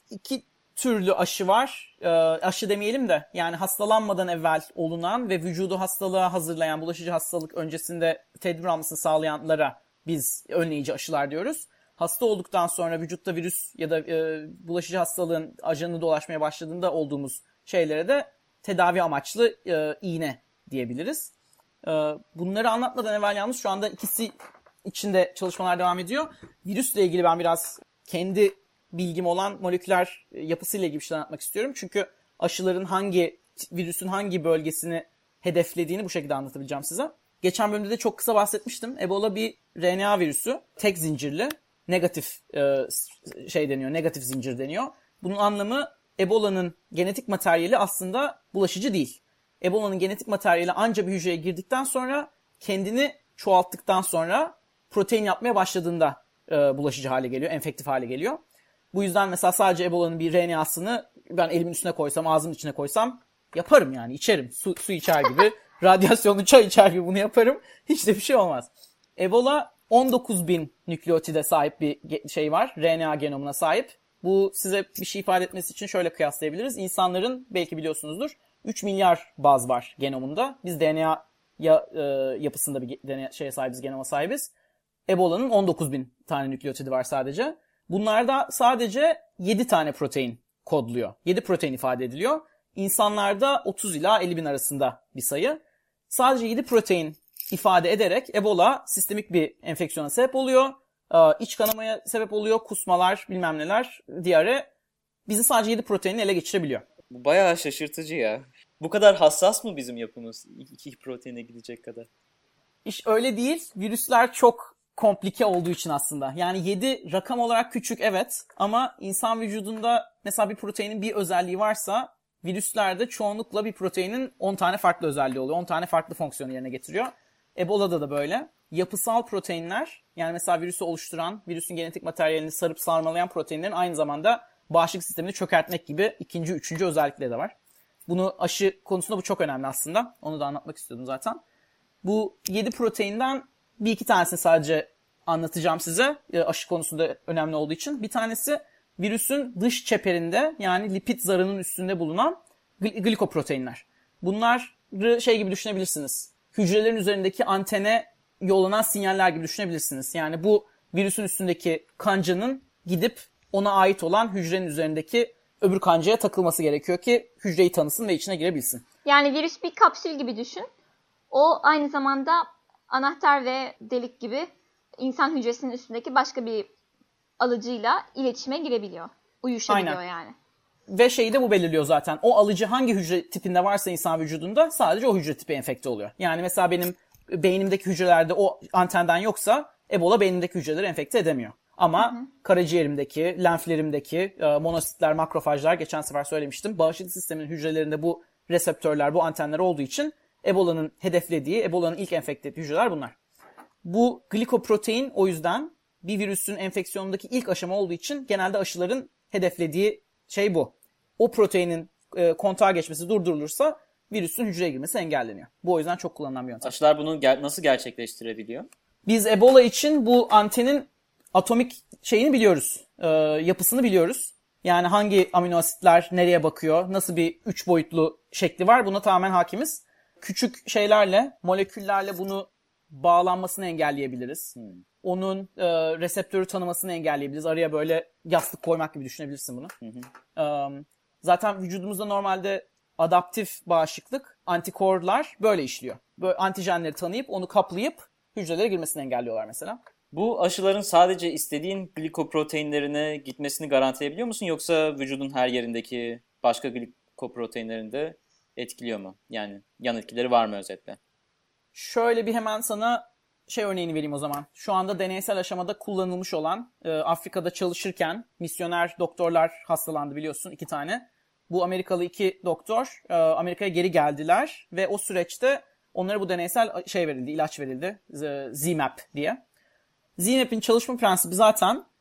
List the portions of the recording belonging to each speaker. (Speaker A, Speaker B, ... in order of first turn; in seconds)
Speaker A: 0.1-21.3, 21.8-24.3, 24.8-58.4, 58.9-84.5, 85.1-104.7, 105.3-106.8, 112.8-137.5, 138.1-141.4, 142.0-168.8, 179.7-180.0, 180.9-203.2, 203.8-216.7, 219.1-239.7, 240.3-249.8, 261.7-279.4, 280.2-281.8
Speaker B: 107.1-112.1, 216.6-218.7, 234.6-234.8, 250.1-261.0
Speaker C: 169.0-170.7, 171.3-174.5, 175.0-176.7, 177.4-180.3, 192.0-192.3